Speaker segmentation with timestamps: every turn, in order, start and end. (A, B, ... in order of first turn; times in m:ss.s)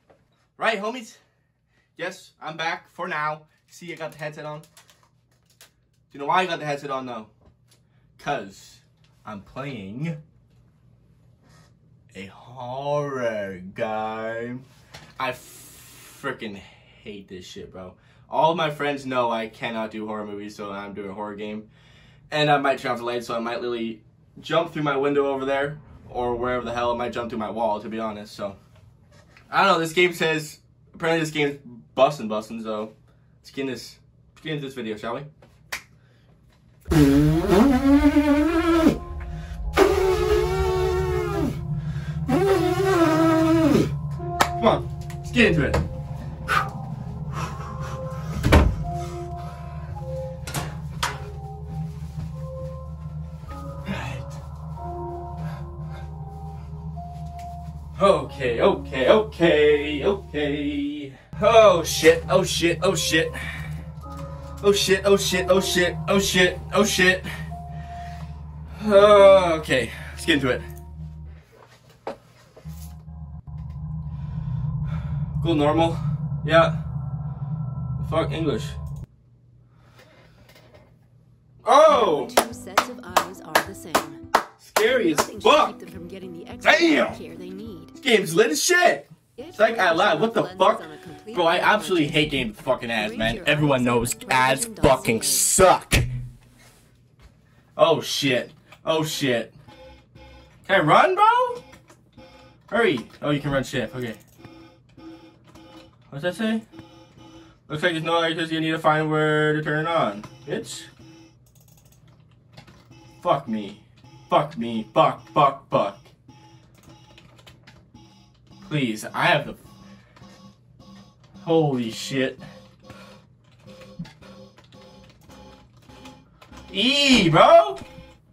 0:00.6-0:01.2 A
0:02.0-0:04.7 A
0:06.1-0:07.3 A
0:08.2-0:10.2 A
0:12.1-0:14.7 A
0:15.2-0:21.7 A
0:22.3-0:28.6 A
0:29.5-0:35.3 A
0:44.4-0:45.8 A
0:53.8-0:54.4 A
0:58.0-1:03.4 A
1:04.6-1:07.3 A
1:08.8-1:10.7 A
1:15.4-1:16.8 A
1:18.0-1:18.8 A
1:21.6-1:22.4 A
1:21.9-1:24.2 B
1:24.6-1:25.8 A
1:24.9-1:28.0 B
1:26.6-1:27.2 A
1:28.0-1:36.1 A
1:29.4-1:32.4 B
1:33.0-1:35.5 B
1:37.8-1:39.6 A
1:40.6-1:41.6 A
1:42.7-1:44.2 A
1:46.1-1:46.6 A
1:47.7-1:50.9 A
1:53.2-1:56.1 A
1:58.6-1:59.6 A
2:01.4-2:02.4 A
2:06.7-2:07.8 A